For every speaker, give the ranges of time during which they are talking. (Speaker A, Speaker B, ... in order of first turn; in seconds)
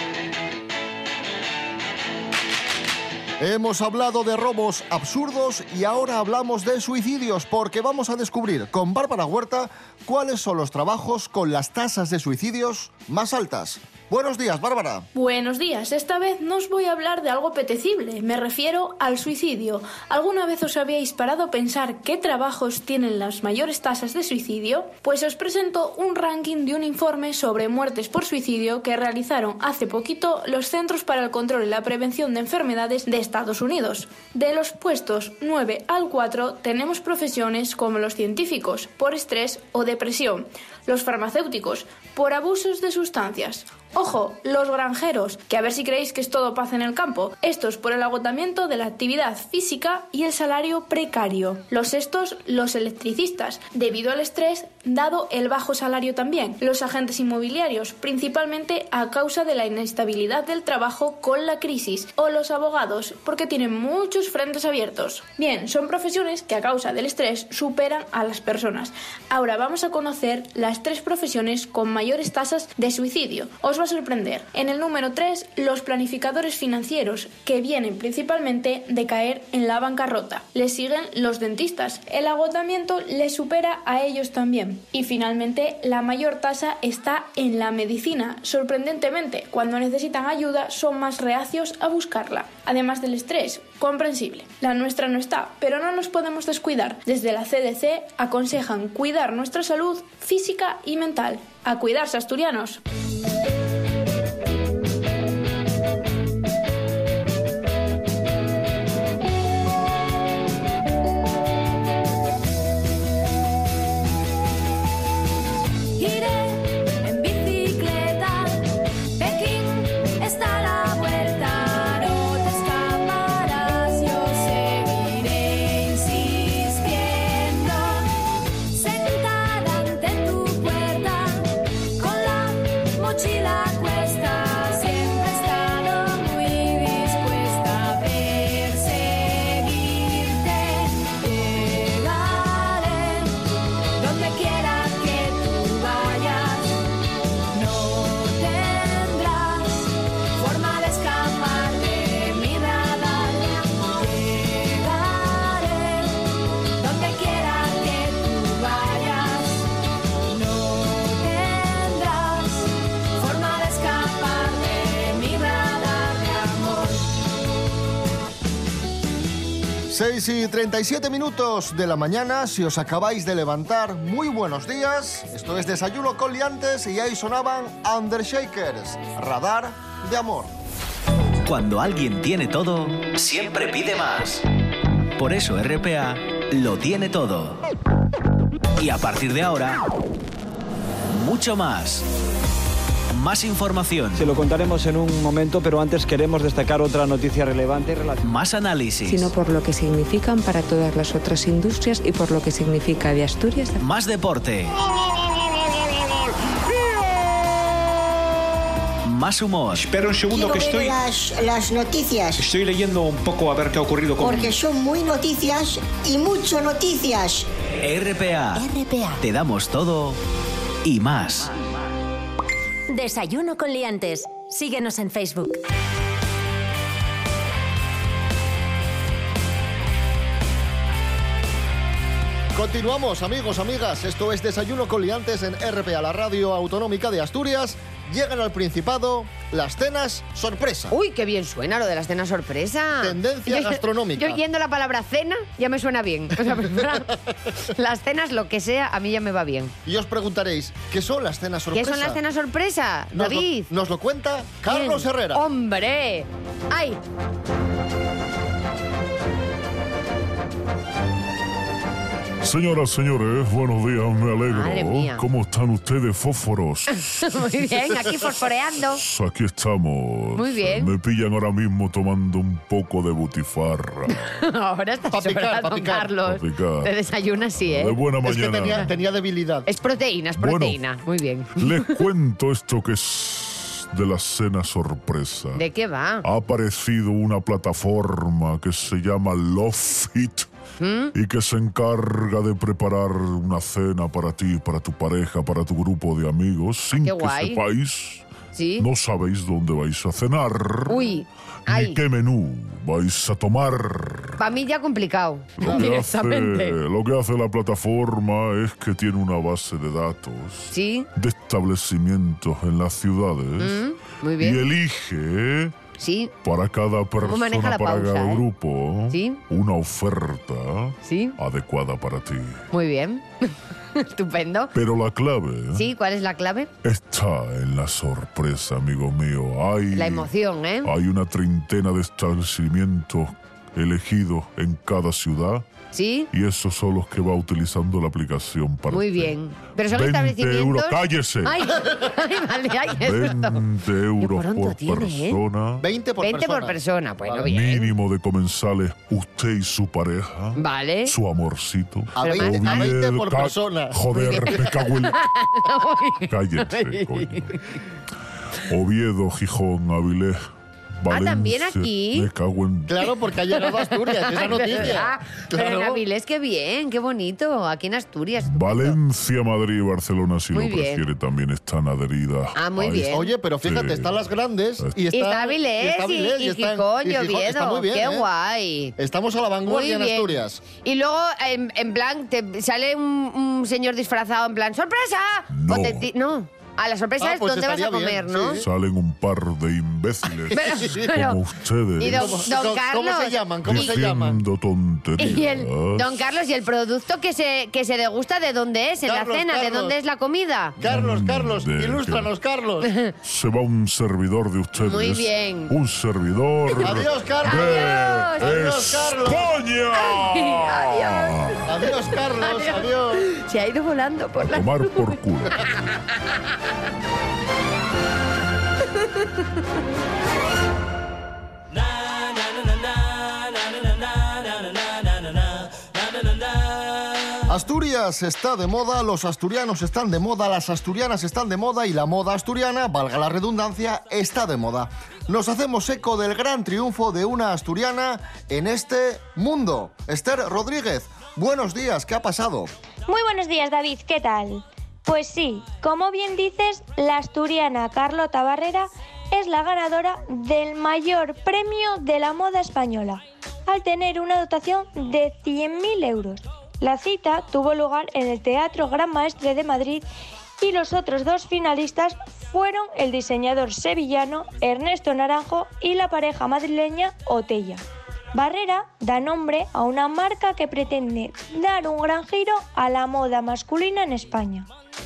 Speaker A: 3.4-15.1, 169.9-180.5, 232.5-240.9, 243.0-244.4, 249.8-252.2, 253.1-255.4, 275.1-276.1, 278.2-279.7, 345.8-347.5, 352.1-354.7, 362.9-366.0, 373.1-378.3, 379.0-380.6, 387.2-388.6, 390.6-391.1, 392.0-394.4, 399.0-399.9, 400.8-402.9, 406.8-409.5, 411.6-413.2, 427.5-442.7
Speaker B: 15.1-102.8
Speaker C: 116.0-128.1, 128.7-143.4, 144.0-146.8, 147.5-156.2, 156.8-159.7, 160.3-167.2
Speaker D: 181.4-184.4, 185.2-187.6, 188.8-189.8, 191.1-192.1, 193.1-194.3, 198.2-199.3, 203.8-204.7, 209.0-209.8, 217.8-218.7, 219.2-220.2, 220.8-221.5
Speaker E: 194.2-198.2
Speaker F: 199.0-203.8
Speaker G: 209.7-211.0, 212.4-214.6
Speaker H: 210.3-212.4, 214.2-217.5
Speaker I: 218.5-219.2, 222.9-225.6
Speaker J: 240.9-247.1, 247.6-249.7, 251.7-253.7, 254.7-257.0, 264.4-265.2, 267.2-269.0, 270.4-270.9, 274.1-278.0, 279.6-282.0, 285.5-286.2, 290.8-291.1, 297.0-297.6, 298.5-298.9, 300.9-302.0, 304.4-306.8, 310.7-311.1, 313.6-314.6, 316.0-316.3, 317.2-318.4, 319.1-319.4, 321.0-321.4, 322.7-324.7, 325.7-326.7, 329.9-330.9, 335.9-336.3, 338.9-343.6, 344.2-345.4, 346.2-347.9, 350.6-351.1, 352.2-353.0, 354.1-357.6, 361.1-362.3, 363.6-369.0, 370.5-371.0, 372.6-373.3, 375.1-378.9, 379.6-388.6, 390.5-391.4, 392.0-394.0, 395.2-400.8, 402.8-403.1, 404.8-405.7, 406.7-408.7, 409.9-415.6
Speaker K: 262.4-267.9, 268.9-274.3, 276.2-276.9, 277.6-278.9, 280.4-280.8, 281.6-285.6, 286.2-290.5, 291.1-298.2, 298.8-304.4, 305.6-313.8, 314.4-315.7, 316.4-322.6, 324.7-325.9, 326.8-330.3, 330.8-335.6, 336.3-341.7, 342.9-345.8, 347.4-355.2, 356.3-357.5, 358.7-360.4, 361.0-362.9, 368.4-374.1, 385.5-386.1, 388.6-392.5, 393.6-396.2, 400.8-402.3, 403.2-411.6, 414.4-415.6
Speaker L: 443.1-460.1, 460.6-467.8, 468.3-474.7